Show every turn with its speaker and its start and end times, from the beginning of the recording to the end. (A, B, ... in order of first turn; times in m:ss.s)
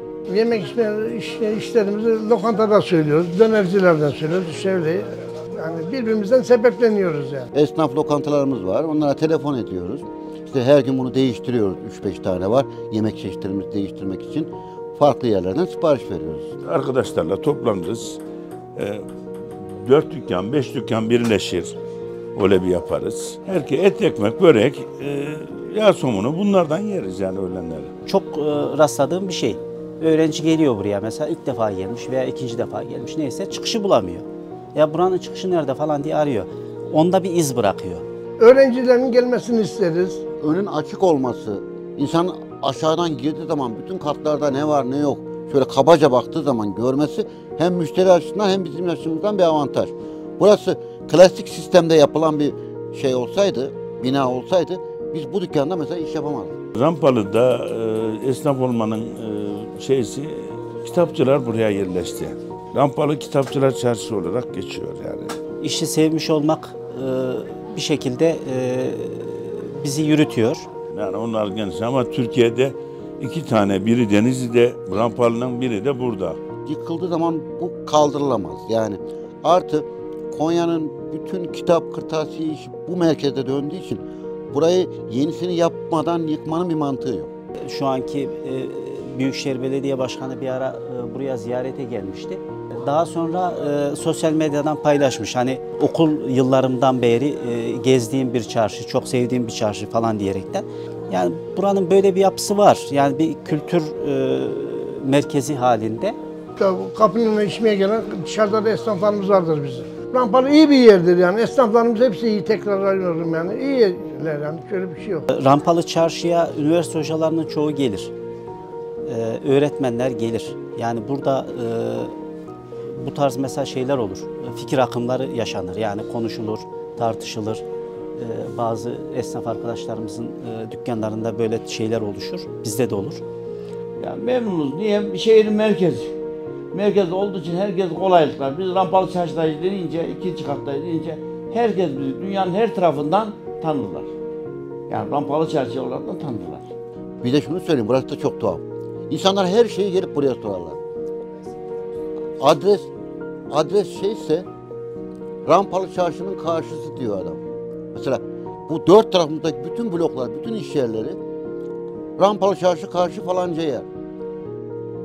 0:00.3-0:07.5 A
0:07.5-0:16.5 B
0:16.6-0:18.2 C
0:18.8-0:19.0 C
0:19.7-0:21.7 C
0:22.3-0:27.9 C
0:28.1-0:38.0 D
0:38.4-0:40.2 A
0:40.4-0:56.5 B
0:56.7-1:05.3 C
1:05.6-1:10.6 D
1:10.9-1:16.4 C
1:16.6-1:27.3 B
1:27.7-1:46.2 D
1:46.6-1:55.3 A
1:55.3-1:58.1 D
1:59.0-2:02.1 D
2:02.9-2:07.6 D
2:08.2-2:13.2 D
2:14.0-2:16.1 E
2:16.7-2:24.1 E
2:24.9-2:26.7 E
2:27.2-2:30.8 B
2:32.4-2:32.9 B
2:33.5-2:34.4 B
2:35.4-2:37.4 B
2:37.9-2:41.2 B
2:42.2-2:43.9 B